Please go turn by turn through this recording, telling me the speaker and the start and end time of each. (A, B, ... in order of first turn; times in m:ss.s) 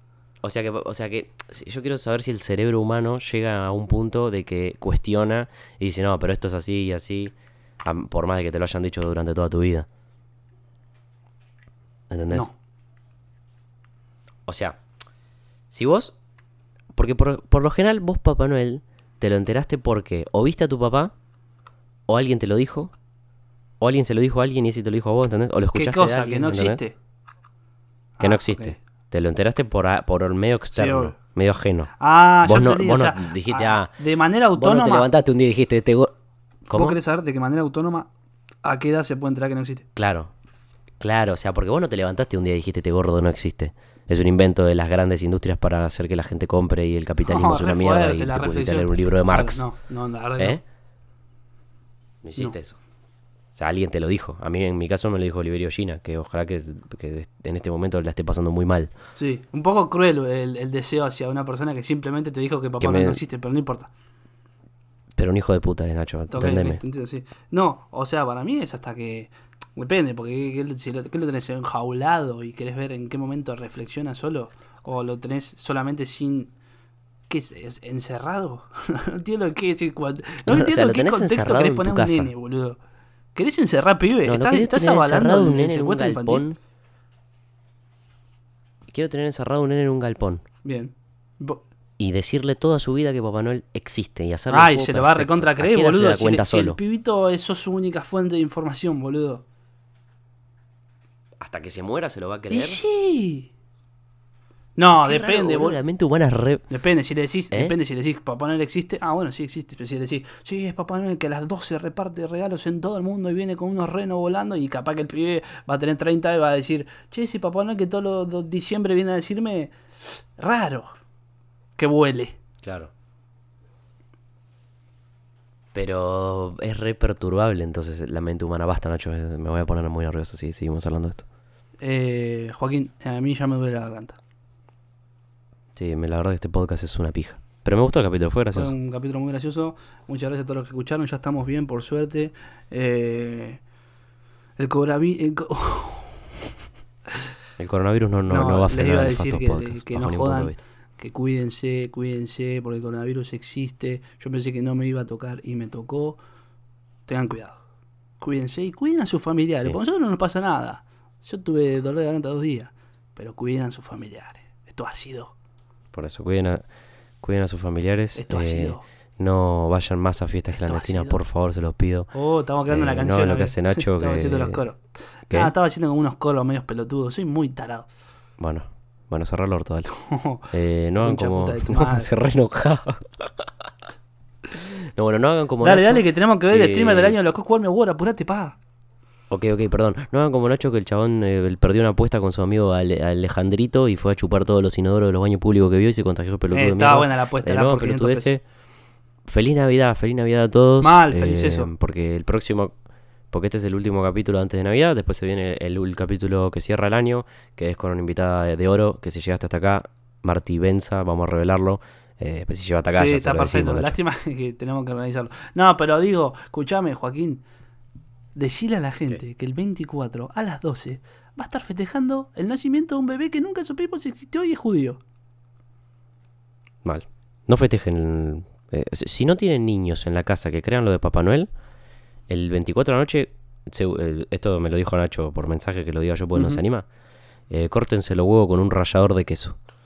0:00.4-0:09.9 A
0:12.1-0:12.5 A
0:14.5-0:14.8 A
0:15.7-0:16.2 A
0:16.9-0:21.1 A
0:22.1-0:22.9 A
0:23.8-0:26.8 A
0:25.7-0:27.0 B
0:28.2-0:28.8 B
0:28.2-0:31.9 A
0:30.7-0:31.2 B
0:32.0-0:35.1 B
0:32.4-0:33.9 A
0:34.6-0:36.1 A
0:36.7-0:37.0 A
0:36.7-0:38.1 B
0:38.6-0:39.9 B
0:40.0-0:40.3 A
0:41.0-0:49.6 A
0:47.2-0:50.6 B
0:52.2-0:52.8 A
0:53.5-0:58.9 A
0:59.2-1:03.9 B
1:02.8-1:03.2 A
1:05.2-1:06.8 A
1:06.3-1:16.5 B
1:17.3-1:22.8 B
1:20.5-1:22.3 A
1:23.4-1:26.5 B
1:24.2-1:26.6 A
1:28.9-1:30.4 A
1:30.6-1:31.6 B
1:32.0-1:36.8 A
1:34.5-1:39.4 B
1:41.4-1:42.8 A
1:42.5-1:43.5 B
1:44.8-1:45.8 B
1:44.9-1:46.7 A
1:46.7-2:01.0 B
2:01.8-2:02.4 B
2:02.6-2:02.9 A
2:05.7-2:11.2 A
2:11.8-2:14.2 B
2:15.8-2:18.7 A
2:18.5-2:23.6 B
2:24.6-2:26.3 B
2:27.6-2:30.6 A
2:28.3-2:36.2 B
2:37.1-2:37.6 B
2:38.2-2:45.3 B
2:45.9-2:46.6 A
2:47.2-2:52.1 A
2:48.2-2:48.8 B
2:50.6-2:51.2 B
2:52.1-2:57.9 B
2:52.7-2:54.6 A
2:58.4-2:59.9 A
2:59.9-3:02.1 B
3:00.5-3:03.7 A
3:04.5-3:07.2 A
3:05.6-3:08.6 B
3:09.3-3:18.4 A
3:16.5-3:18.3 B
3:19.2-3:22.7 A
3:20.8-3:21.7 B
3:23.3-3:34.0 A
3:32.9-3:37.4 B
3:38.4-3:45.0 B
3:46.8-3:51.5 A
3:52.3-3:56.8 A
3:56.3-3:56.6 B
3:57.5-3:59.6 A